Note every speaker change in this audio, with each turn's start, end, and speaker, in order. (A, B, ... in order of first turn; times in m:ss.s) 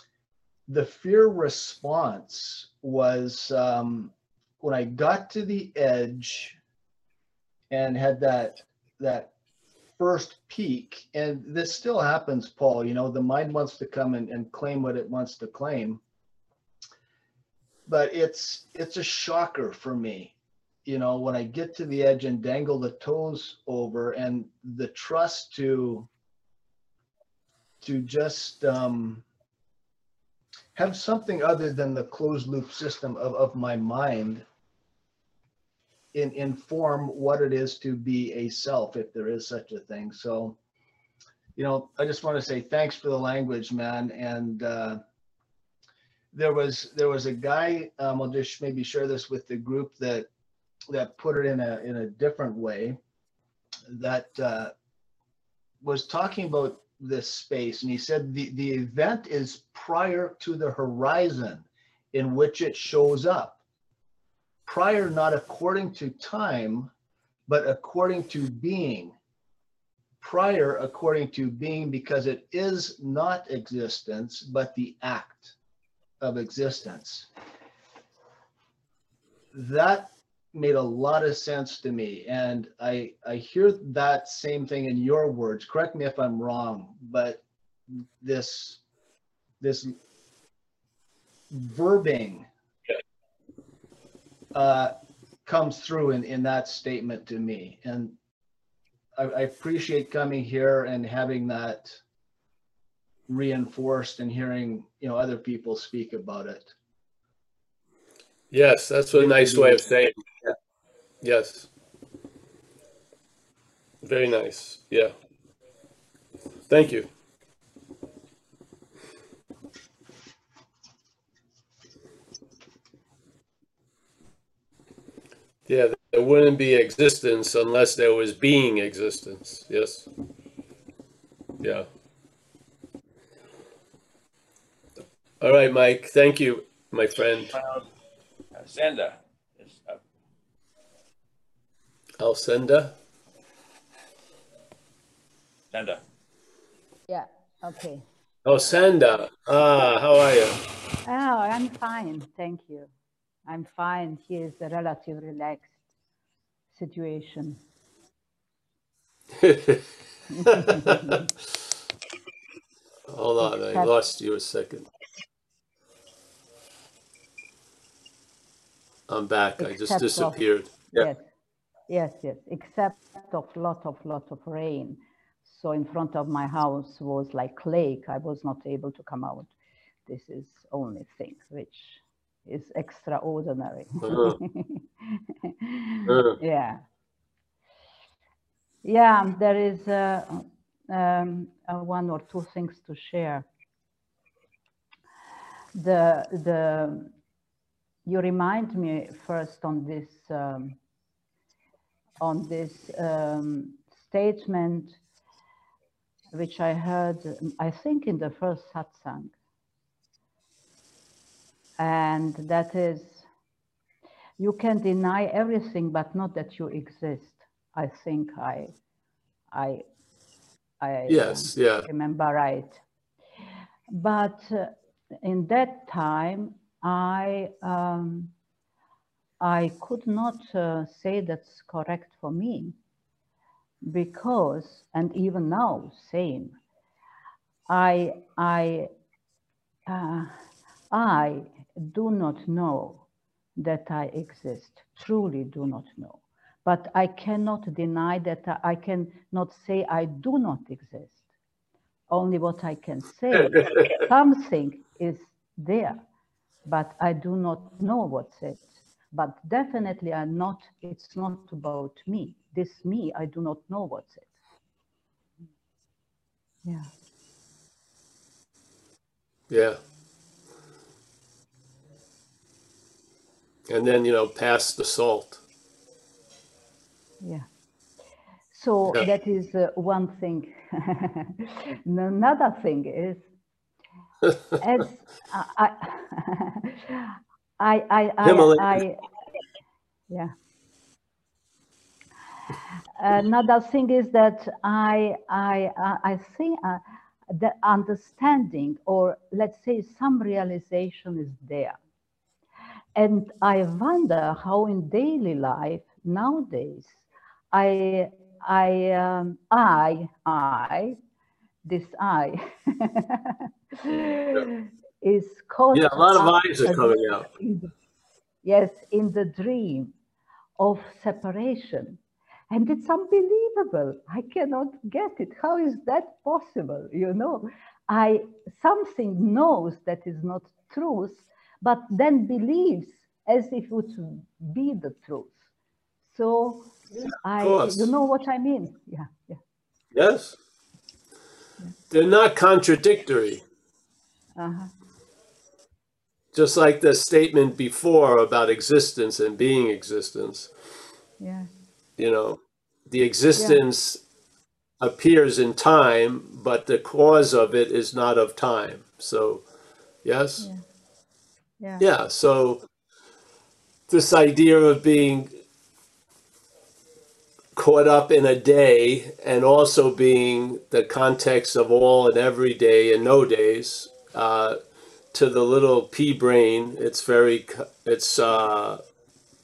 0:00.7-0:06.6 A
0:07.7-0:09.3 A
0:10.0-0:16.0 A
0:17.9-0:20.3 A
0:20.8-0:26.1 A
0:27.8-0:29.2 A
0:30.7-0:34.4 A
0:36.1-0:40.6 A
0:41.6-0:45.0 A
0:46.3-0:50.3 A
0:50.9-0:53.0 A
0:53.9-0:54.7 A
0:55.8-1:03.6 A
1:04.6-1:06.9 A
1:07.5-1:09.1 A
1:10.2-1:15.5 A
1:16.2-1:17.3 A
1:19.5-1:27.4 A
1:28.2-1:28.8 A
1:29.6-1:29.9 A
1:31.5-1:32.5 A
1:34.5-1:34.9 A
1:35.4-1:38.1 A
1:39.2-1:42.0 A
1:43.3-1:46.7 A
1:48.5-1:50.6 B
1:49.1-1:49.8 A
1:51.2-1:51.7 B
1:54.0-1:55.1 B
1:56.7-1:57.1 B
2:05.7-2:10.1 B
2:15.4-2:17.5 B
2:17.5-2:17.8 C
2:18.6-2:20.0 C
2:22.2-2:22.9 B
2:25.7-2:26.0 C
2:27.1-2:28.0 D
2:28.4-2:30.6 B
2:31.0-2:32.9 D
2:33.5-2:35.7 D
2:36.7-2:37.6 D
2:39.4-2:39.8 B
2:40.3-2:41.3 D
2:40.4-2:41.2 B
2:43.1-2:44.9 B
2:43.4-2:43.9 D
2:49.1-2:51.1 B
2:49.6-2:50.4 D
2:50.9-2:51.3 D
2:51.9-2:59.5 D
3:00.0-3:06.8 D
3:04.0-3:04.4 B
3:06.1-3:06.4 B
3:08.8-3:13.4 D
3:15.7-3:17.1 D
3:18.0-3:20.8 D
3:22.2-3:25.0 D
3:26.3-3:29.3 D
3:31.8-3:33.3 D
3:34.4-3:38.7 D
3:39.5-3:39.8 D
3:40.8-3:42.8 D
3:41.1-3:41.9 B
3:43.9-3:44.7 D
3:45.2-3:48.3 D
3:49.4-3:52.7 D
3:53.8-3:56.6 D
3:57.7-3:58.9 D
3:59.9-4:00.3 D
4:00.9-4:03.0 D
4:03.6-4:11.2 D
4:12.1-4:16.0 D
4:13.4-4:13.8 B
4:16.6-4:24.3 D
4:29.5-4:29.8 B
4:33.7-4:35.4 B
4:38.5-4:43.2 D
4:44.6-4:49.0 D
4:48.2-4:48.8 B
4:53.0-5:01.8 D
5:02.9-5:07.0 D
5:07.5-5:11.0 D
5:11.6-5:17.7 D
5:13.9-5:14.4 B
5:15.7-5:17.3 B
5:18.4-5:19.9 D
5:20.6-5:22.0 D
5:22.5-5:35.4 D
5:36.1-5:39.4 D
5:37.4-5:37.9 B
5:39.9-5:40.4 B
5:41.9-5:43.4 B
5:44.4-5:44.7 D
5:46.3-5:50.5 B
5:51.2-5:51.5 D
5:52.0-5:54.0 B
5:53.4-5:53.6 D
5:54.8-5:59.4 B
6:00.0-6:00.5 B
6:01.8-6:02.6 B
6:03.9-6:05.3 B
6:07.6-6:14.6 B
6:15.1-6:18.8 B